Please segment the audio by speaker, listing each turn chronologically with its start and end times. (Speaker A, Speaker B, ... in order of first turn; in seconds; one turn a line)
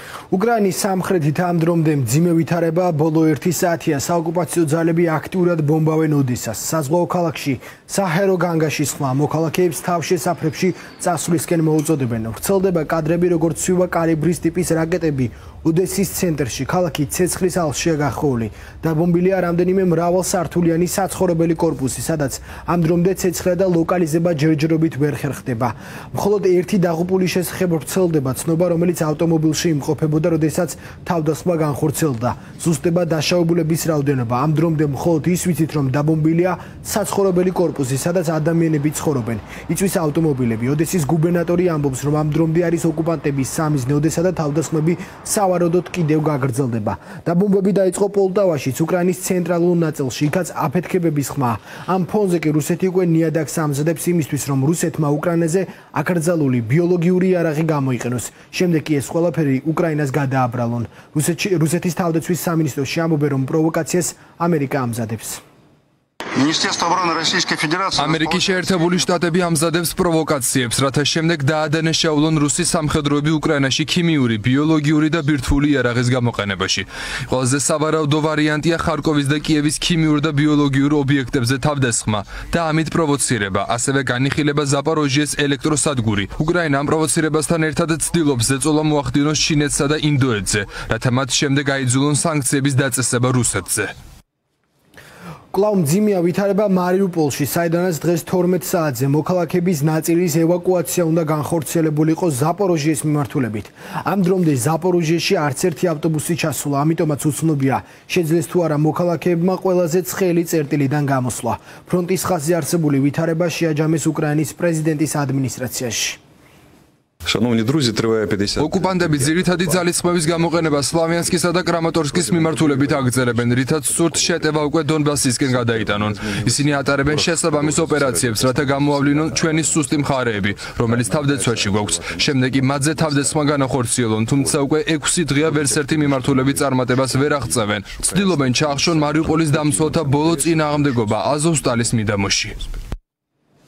Speaker A: 0.3-65.4
Speaker B: 66.3-68.6
Speaker C: 68.0-93.9
Speaker A: 95.5-116.2
Speaker D: 117.2-142.0
Speaker C: 118.5-142.6